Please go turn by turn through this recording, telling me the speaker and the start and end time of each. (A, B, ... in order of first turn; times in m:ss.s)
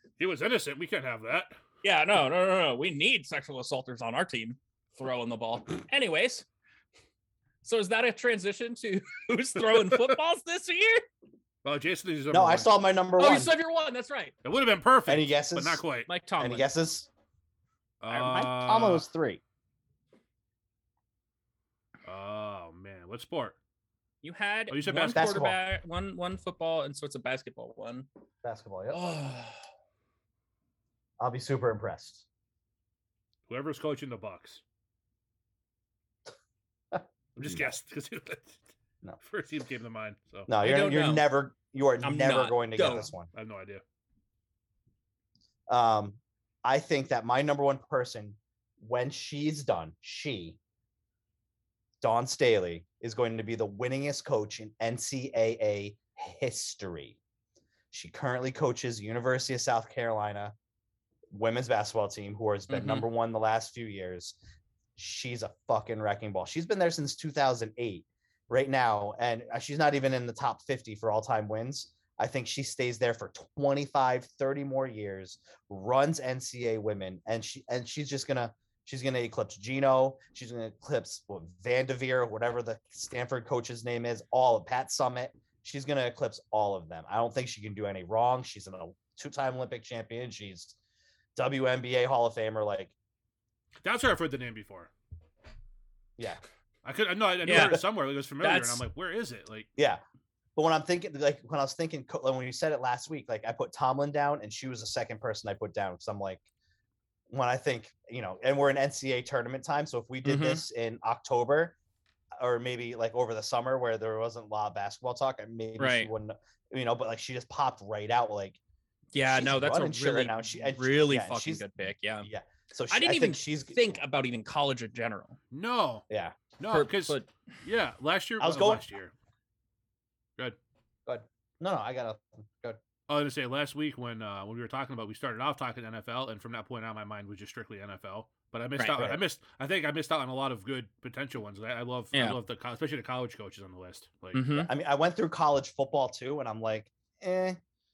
0:00.2-0:01.6 A
0:01.8-0:06.4 B
0:07.6-0:11.0 B
0:11.6-0:12.7 A
0:12.3-0:13.5 C
0:13.2-0:14.3 B
0:14.4-0:16.1 A
0:15.1-0:15.8 C
0:16.1-0:16.7 B
0:16.4-0:17.1 C
0:18.0-0:19.0 A
0:18.1-0:19.4 C
0:22.0-0:23.6 A
0:24.2-0:28.1 B
0:24.7-0:25.4 A
0:25.1-0:25.6 C
0:28.4-0:29.0 C
0:28.9-0:29.6 B
0:31.2-0:32.2 C
0:33.5-0:34.6 A
0:36.9-0:37.7 C
0:37.3-0:38.6 A
0:39.2-0:40.5 A
0:40.5-0:43.3 C
0:40.6-0:41.3 B
0:42.0-0:43.1 B
0:43.3-0:43.8 A
0:45.7-0:50.6 C
0:52.0-0:57.2 C
0:57.9-1:00.5 C
1:01.3-1:04.4 C
1:02.7-1:03.0 B
1:05.0-1:30.8 C
1:31.4-1:32.9 C
1:33.8-1:34.9 A
1:36.8-1:39.7 A
1:37.4-1:37.8 B
1:38.4-1:38.8 B
1:39.8-1:40.0 C
1:40.6-1:46.5 C
1:47.3-1:51.8 C
1:50.2-1:50.6 B
1:52.4-1:58.6 C
1:55.8-1:56.1 B
1:59.1-2:02.3 B
1:59.2-2:01.6 C
2:02.2-2:04.0 C
2:02.9-2:05.4 B
2:05.5-2:06.0 A
2:06.1-2:06.4 C
2:06.6-2:09.1 A
2:06.7-2:07.3 B
2:08.4-2:08.8 C
2:11.0-2:12.8 C
2:13.1-2:24.4 A
2:22.1-2:22.4 B
2:24.3-2:24.7 B
2:24.6-2:27.6 C